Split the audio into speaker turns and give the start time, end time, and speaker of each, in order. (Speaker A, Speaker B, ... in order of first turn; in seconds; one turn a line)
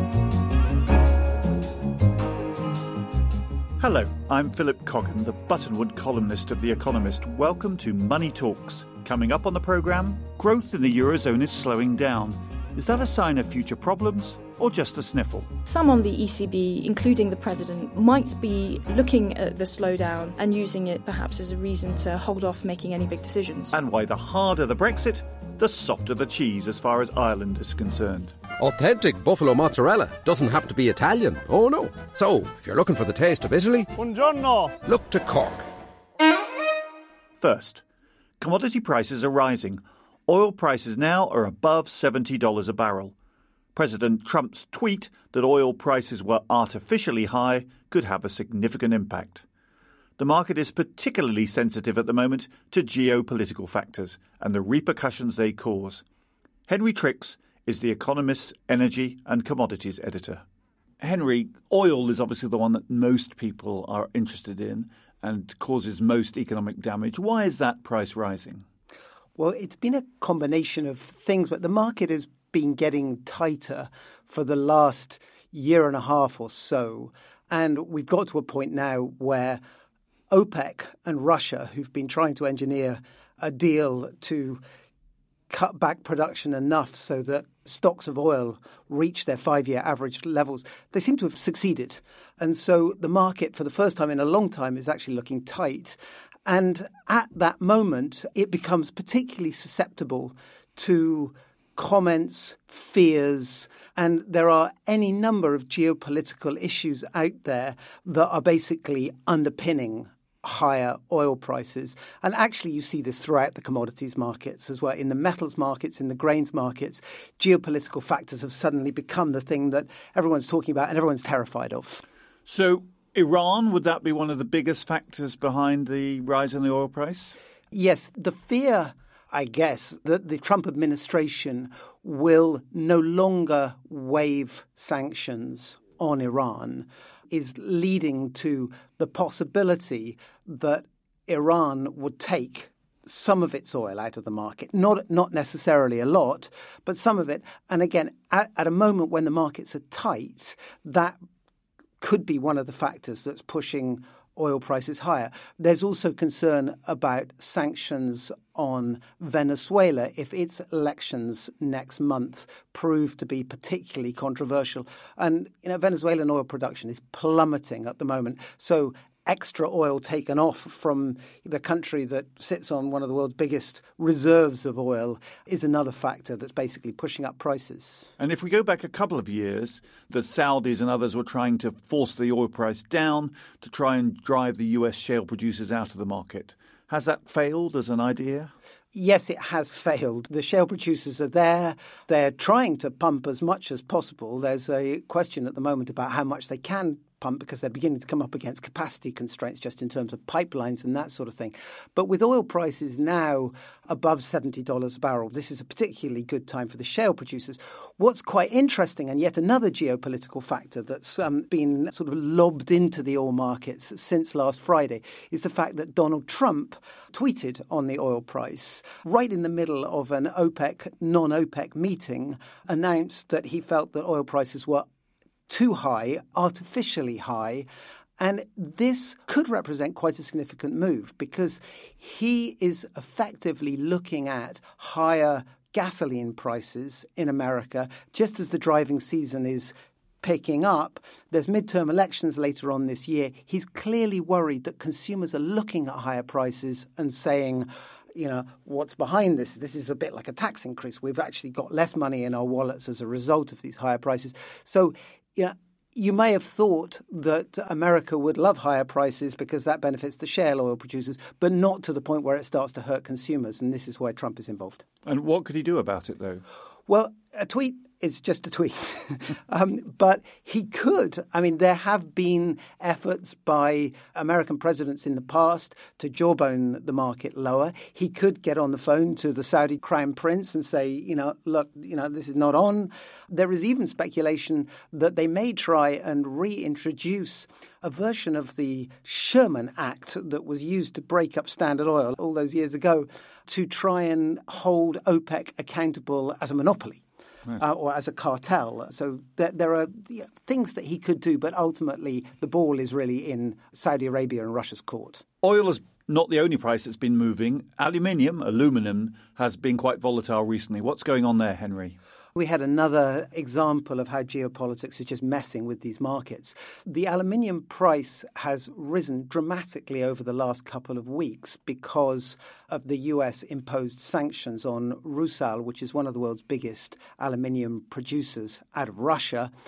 Speaker A: 3.8-15.5
Speaker B: 15.7-23.7
Speaker A: 23.7-28.3
Speaker C: 28.6-33.9
Speaker C: 34.8-35.7
Speaker A: 37.4-37.8
Speaker A: 38.4-43.1
Speaker A: 43.7-49.4
Speaker A: 50.2-56.0
Speaker A: 56.7-60.4
Speaker A: 61.0-68.6
Speaker D: 69.4-79.6
Speaker D: 80.3-84.6
Speaker D: 85.5-122.0
Speaker A: 122.5-127.3
Speaker D: 127.7-151.2
Speaker D: 152.0-178.1
Speaker A: 178.2-188.5
Speaker D: 188.9-224.8
Speaker D: 225.5-227.7
Speaker D: 228.2-264.8
Speaker A: 265.1-266.4
Speaker D: 266.9-297.0
Speaker D: 297.5-305.2
Speaker A: 305.4-312.0
Speaker D: 312.4-329.5